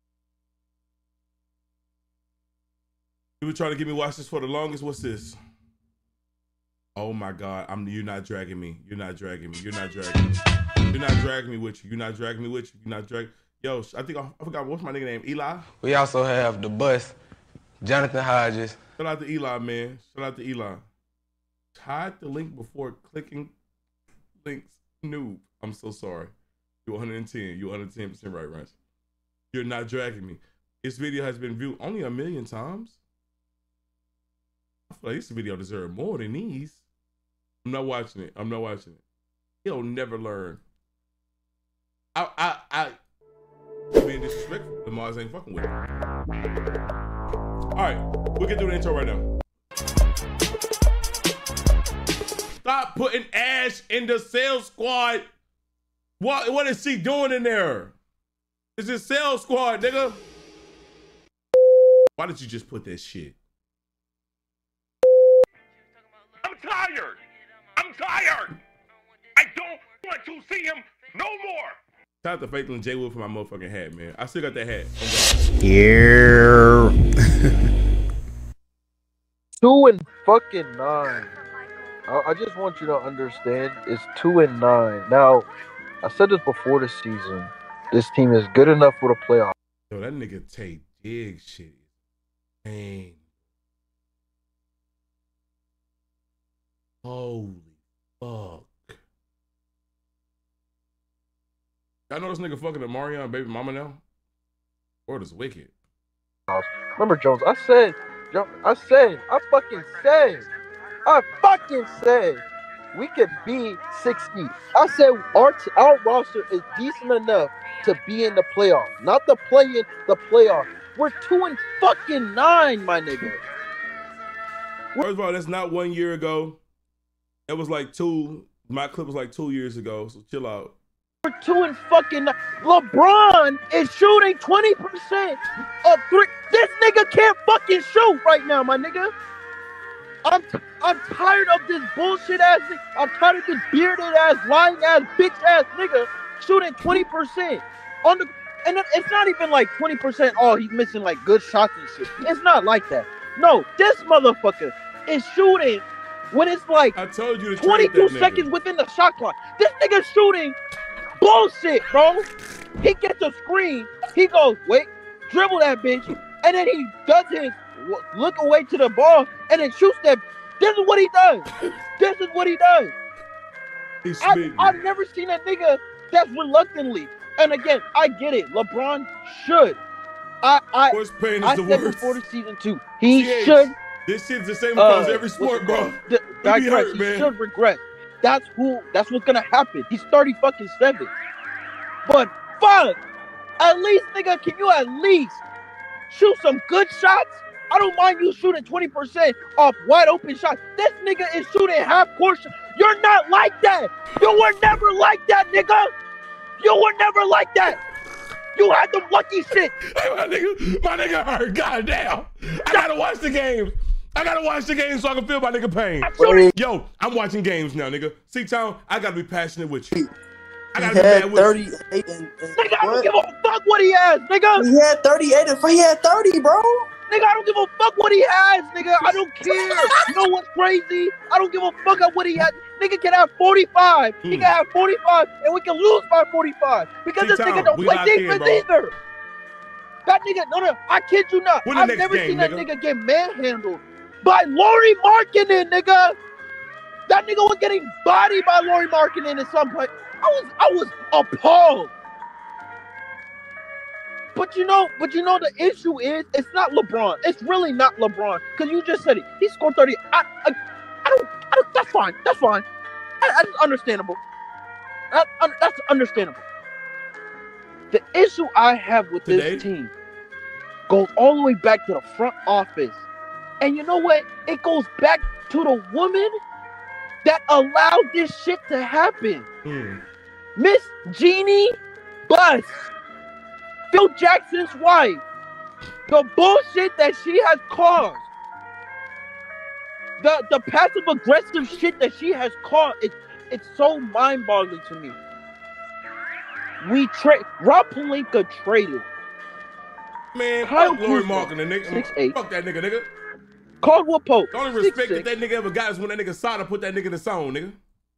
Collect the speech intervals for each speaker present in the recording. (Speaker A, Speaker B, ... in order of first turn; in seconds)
Speaker A: 3.4-5.4, 7.0-10.4, 10.9-15.7, 19.0-20.8, 21.7-23.5, 24.4-26.3, 26.9-28.7, 29.5-33.0, 34.9-36.8, 37.6-39.0, 39.6-40.6, 42.1-42.9, 43.9-45.7, 47.8-49.3, 52.6-55.3, 56.2-57.9, 58.8-60.2, 62.2-63.4, 72.2-75.5, 89.9-91.8, 92.6-93.2, 97.0-99.0, 102.1-104.0, 105.1-105.7, 124.9-126.6, 127.5-130.7, 156.9-158.5, 174.0-174.8, 180.9-182.2, 183.1-187.3, 209.8-219.9, 220.7-221.7, 234.2-234.5, 237.2-238.7, 241.6-242.7, 269.2-269.6, 279.6-280.0, 300.3-303.1, 304.5-307.8
Speaker B: 15.8-17.1, 17.8-18.7
Speaker C: 66.4-67.2, 67.8-68.6, 69.3-71.8
Speaker D: 79.6-81.3, 82.1-85.5, 86.0-89.5, 106.5-110.5, 111.0-112.4, 112.9-123.4, 131.2-139.1, 140.2-156.9, 157.6-160.6, 161.2-162.2, 162.8-171.5, 172.0-172.9, 174.2-179.8, 180.4-183.7, 184.8-191.1, 192.1-193.0, 193.6-195.4, 196.1-205.9, 206.6-207.8, 208.6-209.7, 216.0-216.5, 222.6-224.6, 227.1-238.9, 240.1-246.2, 247.1-251.9, 254.3-262.6, 263.2-264.2, 265.1-266.4, 267.9-269.9, 270.9-273.0, 273.6-276.3, 277.2-279.4, 280.6-281.8, 282.3-282.9, 283.9-285.2, 286.1-288.2, 290.2-295.2, 296.8-299.0, 300.6-302.4, 303.8-305.2
Speaker E: 220.8-223.1, 224.6-226.8